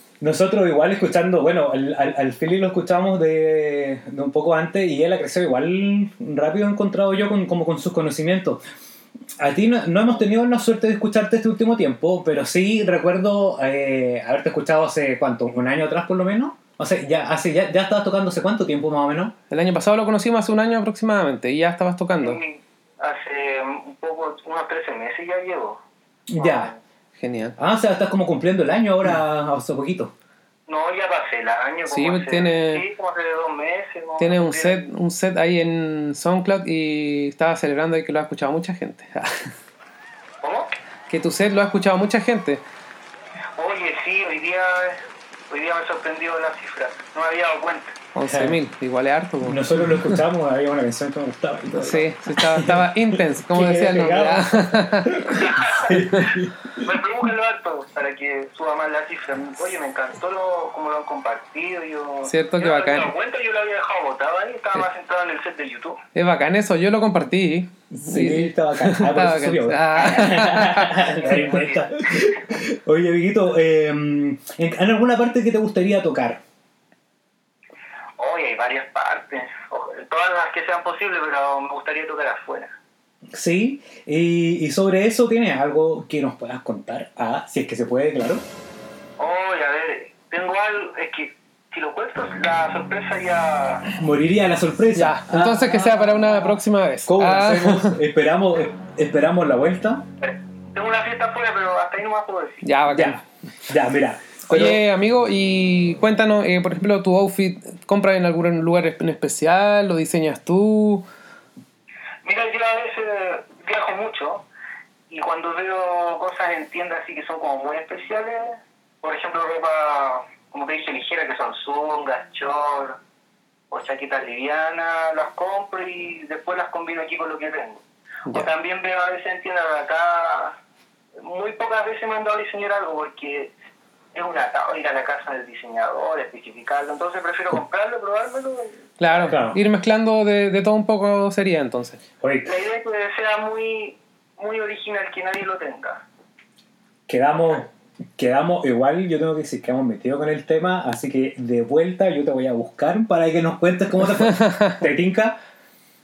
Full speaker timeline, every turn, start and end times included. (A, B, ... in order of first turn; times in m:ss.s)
0:00.2-0:08.6 A
0:09.4-0:19.3 A
0:19.5-0:22.4 B
0:22.2-0:25.8 C
0:26.3-0:26.7 A
0:26.4-0:26.8 C
0:27.2-0:27.6 B
0:27.6-0:30.1 A
0:30.7-0:34.8 C
0:31.9-0:32.8 B
0:34.2-0:39.5 B
0:40.4-0:40.8 C
0:41.1-0:42.6 B
0:43.6-0:48.0 C
0:48.2-0:50.2 B
0:48.3-0:48.6 A
0:49.4-0:56.8 A
0:51.7-0:55.4 B
0:55.4-1:06.0 C
1:02.2-1:03.1 B
1:06.2-1:11.4 B
1:07.9-1:16.4 A
1:11.2-1:12.4 C
1:18.2-1:22.8 C
1:23.3-1:28.4 A
1:29.2-1:33.9 C
1:34.0-1:36.2 A
1:35.0-1:38.0 B
1:37.1-1:40.1 A
1:40.2-1:42.7 C
1:42.6-1:43.2 B
1:42.9-1:44.8 A
1:44.5-1:51.0 B
1:52.2-1:54.4 C
1:55.1-2:03.0 C
2:03.7-2:07.8 C
2:08.3-2:10.6 C
2:11.2-2:13.5 C
2:14.1-2:19.3 C
2:19.0-2:22.0 B
2:19.3-2:19.6 A
2:22.2-2:22.5 A
2:22.4-2:26.0 C
2:27.1-2:35.4 A
2:34.3-2:34.8 B